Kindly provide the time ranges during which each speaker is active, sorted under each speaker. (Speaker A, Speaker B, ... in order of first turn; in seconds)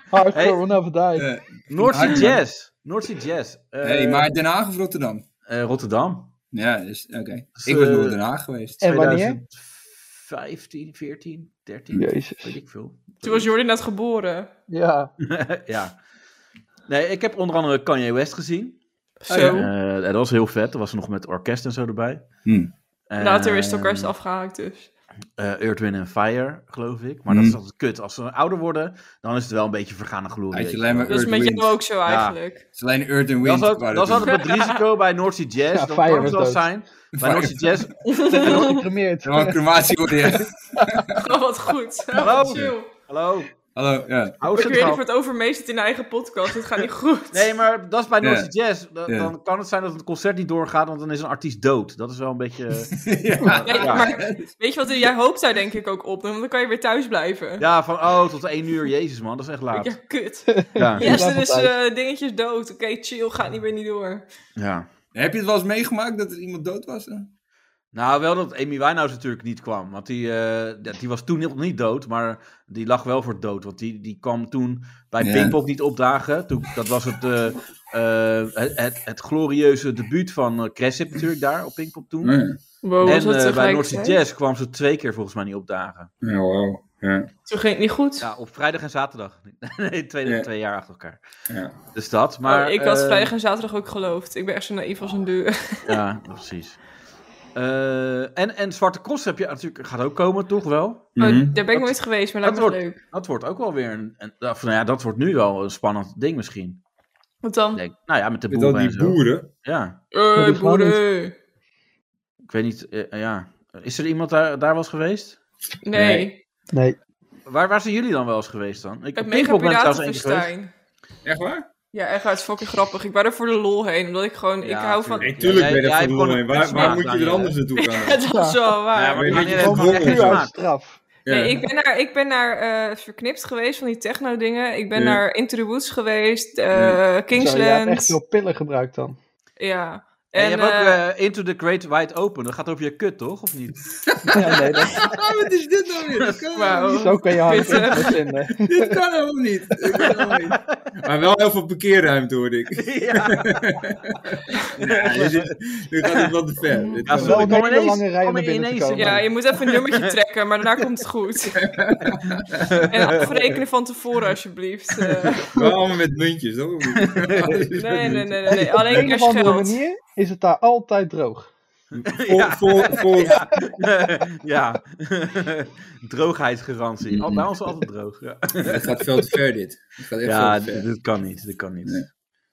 Speaker A: 0.1-1.3, 8.8-9.4, 11.9-12.6, 14.7-15.1, 19.3-19.6, 35.7-36.7, 38.3-41.1, 60.5-61.7, 110.4-111.0, 116.7-117.0, 128.3-131.0, 137.4-139.2, 144.3-145.2, 146.9-149.0, 157.1-159.3, 168.5-171.5
Speaker B: 0.3-0.6, 1.7-4.3, 5.5-6.3, 7.6-8.2, 8.8-13.5, 15.2-16.0, 16.9-18.8, 19.5-22.2, 23.1-24.1, 25.4-31.2, 32.1-32.4, 33.4-38.1, 42.1-43.5, 44.4-45.0, 47.3-54.1, 57.6-59.9, 60.8-61.2, 64.6-64.9, 67.9-82.4, 83.0-86.1, 88.2-91.2, 91.9-93.3, 95.9-96.8, 97.5-101.1, 101.7-106.8, 107.7-110.0, 112.5-115.4, 115.9-116.3, 117.5-120.5, 124.6-127.6, 128.9-130.5, 140.3-144.1, 149.9-150.8, 152.8-153.6, 154.8-156.3, 157.1-160.1, 162.6-163.6, 166.9-167.7, 171.9-179.2, 180.2-182.1
Speaker C: 1.1-2.4, 3.8-5.3, 6.5-8.8, 22.4-22.7, 27.3-27.6, 30.5-31.8, 32.8-34.3, 37.2-37.8, 39.2-41.2, 42.5-42.7, 43.8-44.4, 48.2-48.5, 49.1-49.3, 52.9-54.5, 65.1-67.3, 75.2-75.6, 82.2-82.6, 86.2-87.3, 91.5-91.7, 101.2-101.5, 108.5-109.5, 121.2-121.7, 125.2-128.2, 129.1-130.5, 131.2-131.7, 134.9-135.2, 136.7-137.0, 144.3-147.1, 148.6-157.6, 161.6-162.7, 165.5-169.1, 172.1-173.6, 177.1-177.5, 178.7-180.9
Speaker D: 13.2-14.5, 19.2-19.7, 23.2-24.9, 31.1-32.6, 34.2-34.8, 38.0-38.9, 41.1-42.9, 44.5-47.5, 53.6-57.6, 59.7-64.2, 82.8-84.2, 87.5-88.3, 92.4-96.0, 101.2-103.0, 107.4-107.8, 110.1-111.3, 115.8-116.4, 119.2-120.7, 121.9-125.6, 126.7-127.0, 127.8-129.3, 131.3-138.2, 139.6-141.0, 146.5-148.2, 156.7-157.0, 158.9-161.7, 162.9-165.8, 167.8-169.8